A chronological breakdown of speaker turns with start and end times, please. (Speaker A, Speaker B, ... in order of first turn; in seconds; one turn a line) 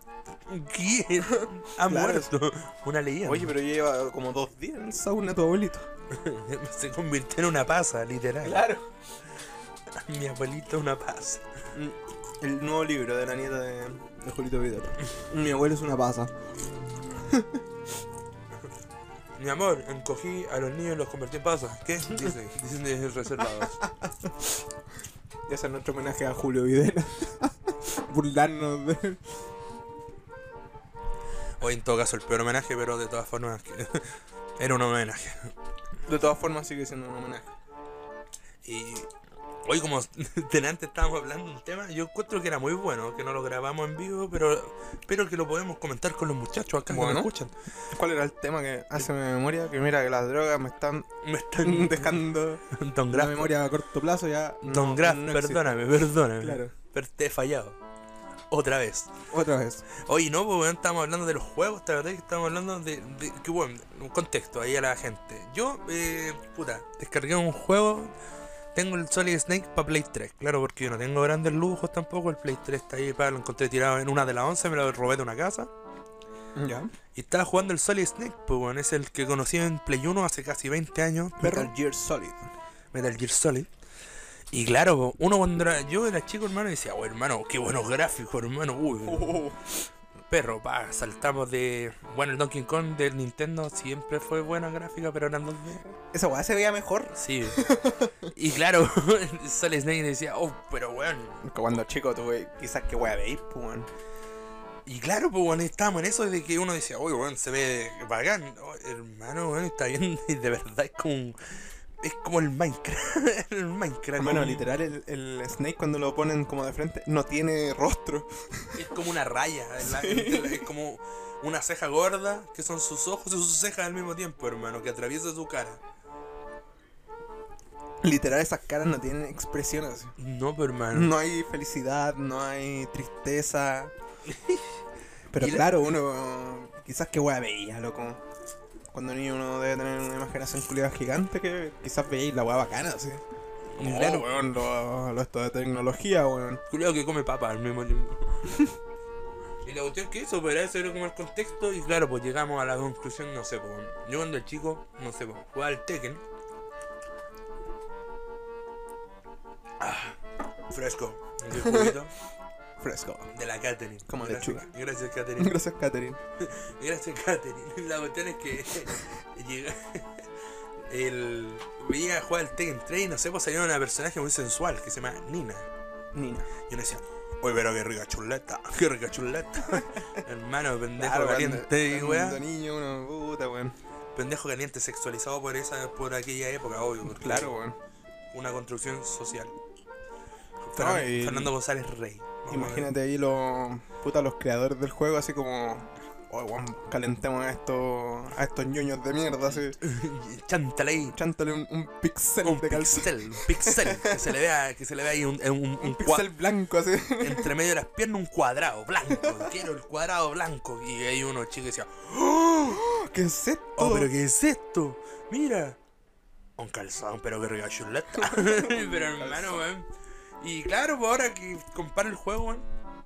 Speaker A: 0.5-3.5
Speaker B: 1.8-2.3
Speaker B: 3.2-5.9
Speaker A: 6.1-8.7
Speaker B: 8.4-8.9
Speaker A: 10.0-11.4
Speaker B: 11.7-16.3
Speaker B: 17.1-17.6
Speaker A: 19.3-23.8
Speaker B: 25.5-29.4
Speaker A: 31.6-35.5
Speaker B: 36.0-37.5
Speaker A: 38.6-39.1
Speaker A: 39.6-47.5
Speaker B: 46.9-47.3
Speaker B: 47.9-51.1
Speaker A: 51.2-53.6
Speaker B: 51.6-55.9
Speaker A: 54.6-57.8
Speaker B: 56.4-56.7
Speaker A: 58.5-59.1
Speaker B: 59.3-59.9
Speaker A: 59.9-68.1
Speaker A: 68.7-75.7
Speaker B: 76.5-76.9
Speaker A: 77.1-81.7
Speaker B: 81.4-82.5
Speaker A: 82.9-83.7
Speaker A: 84.5-89.4
Speaker B: 89.0-89.7
Speaker A: 90.3-96.0
Speaker B: 96.1-98.3
Speaker A: 97.1-97.7
Speaker A: 98.3-101.4
Speaker B: 101.4-103.9
Speaker A: 104.8-111.4
Speaker A: 112.0-114.7
Speaker B: 114.2-118.7
Speaker A: 118.7-125.8
Speaker B: 119.8-120.7
Speaker B: 128.0-130.1
Speaker A: 130.2-131.1
Speaker B: 130.9-133.9
Speaker A: 134.3-134.8
Speaker B: 135.3-138.2
Speaker A: 135.4-135.8
Speaker B: 138.9-143.2
Speaker A: 143.7-144.4
Speaker B: 143.8-146.6
Speaker A: 146.7-148.6
Speaker A: 149.6-156.2
Speaker A: 159.8-160.2
Speaker A: 160.7-162.1
Speaker B: 161.5-161.9
Speaker B: 162.8-163.3
Speaker A: 163.3-165.6
Speaker B: 164.1-164.7
Speaker B: 165.4-166.2
Speaker A: 166.4-170.2
Speaker A: 170.9-175.7
Speaker B: 176.1-176.5
Speaker A: 176.7-182.4
Speaker B: 180.9-183.8
Speaker A: 184.1-187.5
Speaker B: 187.0-187.8
Speaker A: 188.3-189.5
Speaker A: 190.6-192.9
Speaker B: 190.8-191.5
Speaker B: 192.5-199.8
Speaker A: 199.8-201.2
Speaker B: 201.1-204.2
Speaker A: 202.4-206.3
Speaker B: 205.8-207.5
Speaker A: 207.2-212.8
Speaker B: 212.6-214.1
Speaker A: 213.8-215.8
Speaker A: 216.6-219.9
Speaker B: 218.1-219.7
Speaker A: 220.4-222.7